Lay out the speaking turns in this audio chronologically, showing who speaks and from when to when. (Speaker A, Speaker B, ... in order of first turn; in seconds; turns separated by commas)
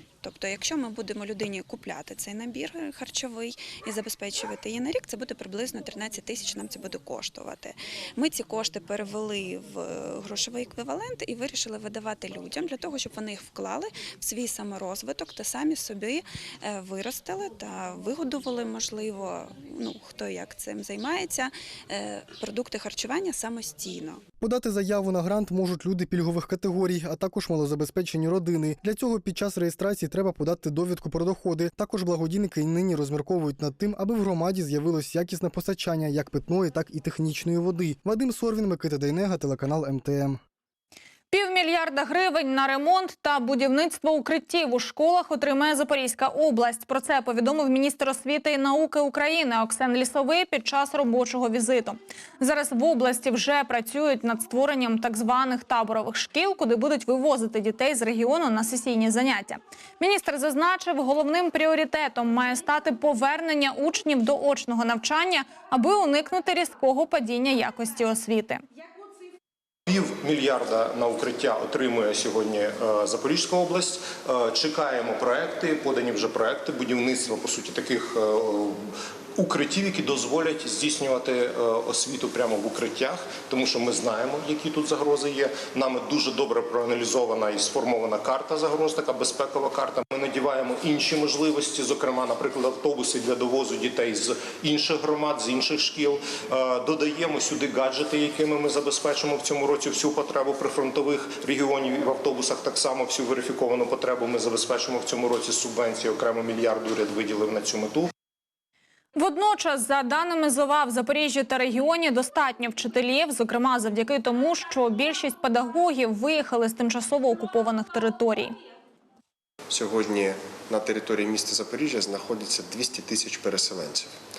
Speaker A: 0.2-24.2, Speaker B: 24.4-40.4, Speaker C: 41.3-68.6, Speaker D: 69.9-108.1, Speaker C: 109.2-118.6, Speaker E: 119.7-124.1